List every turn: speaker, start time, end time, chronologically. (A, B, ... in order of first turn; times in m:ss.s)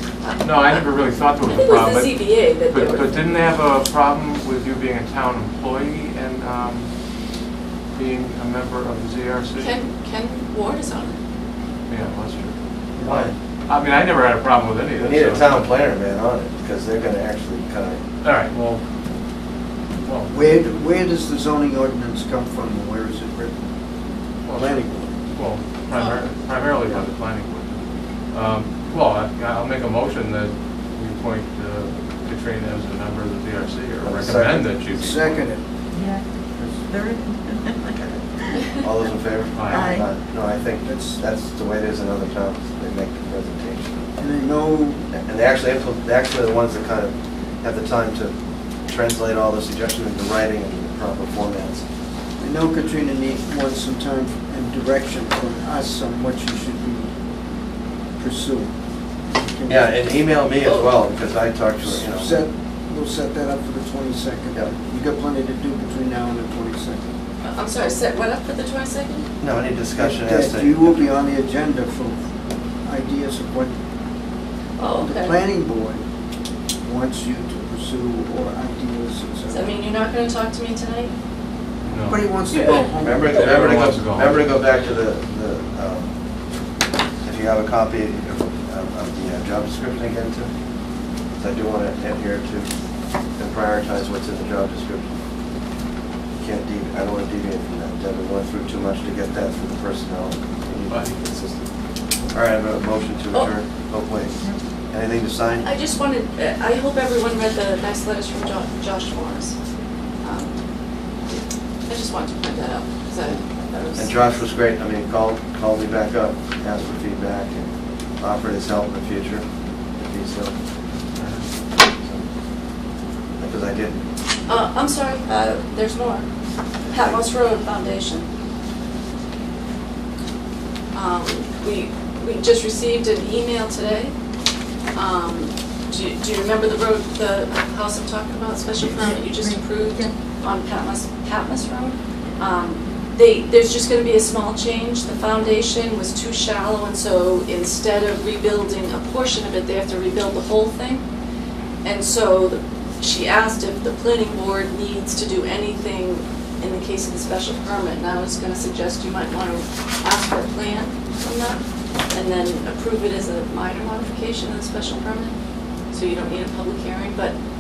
0:00.2-0:00.8 A
0:00.4-0:06.9 B
0:01.4-0:03.2 A
0:08.0-0:09.8 B
0:09.6-0:11.2 A
0:11.9-0:12.5 B
0:13.0-0:13.2 C
0:13.0-0:13.3 D
0:13.1-0:15.6 B
0:15.0-0:18.0 D
0:18.2-0:18.8 B
0:20.0-0:20.4 B
0:20.3-0:23.5 C
0:24.5-0:35.5 B
0:24.5-0:25.1 C
0:25.9-0:26.2 A
0:34.0-0:34.7 D
0:34.9-0:35.7 C
0:35.9-0:36.3 E
0:36.9-0:38.0 E
0:37.9-0:44.1 D
0:39.5-0:40.0 B
0:39.7-0:40.1 E
0:40.8-0:41.2 C
0:44.2-0:45.1 C
0:45.1-0:48.3 D
0:48.9-0:51.8 D
0:52.4-0:57.1 C
0:58.2-0:58.7 C
0:59.3-1:00.0 C
0:59.7-1:02.4 D
1:00.6-1:00.9 A
1:01.8-1:07.1 C
1:07.4-1:09.3 A
1:09.4-1:11.0 D
1:10.0-1:12.2 C
1:12.8-1:13.7 C
1:14.8-1:15.4 A
1:15.0-1:16.0 C
1:16.8-1:19.7 C
1:19.5-1:21.1 A
1:21.8-1:24.8 B
1:22.0-1:23.8 C
1:23.0-1:26.1 D
1:27.2-1:30.5 D
1:31.4-1:32.7 D
1:33.4-1:35.1 D
1:36.4-1:41.6 D
1:40.9-1:41.2 B
1:42.3-1:44.3 D
1:44.9-1:45.7 D
1:45.6-1:49.6 A
1:50.2-1:50.6 A
1:51.3-1:54.4 A
1:53.2-1:59.5 D
2:00.0-2:00.6 D
2:01.2-2:01.4 B
2:02.0-2:02.3 D
2:03.4-2:04.0 D
2:04.5-2:06.3 A
2:06.9-2:08.3 A
2:06.9-2:07.2 D
2:10.9-2:14.1 A
2:15.0-2:31.0 A
2:18.8-2:20.1 E
2:31.8-2:45.3 A
2:45.9-2:47.4 A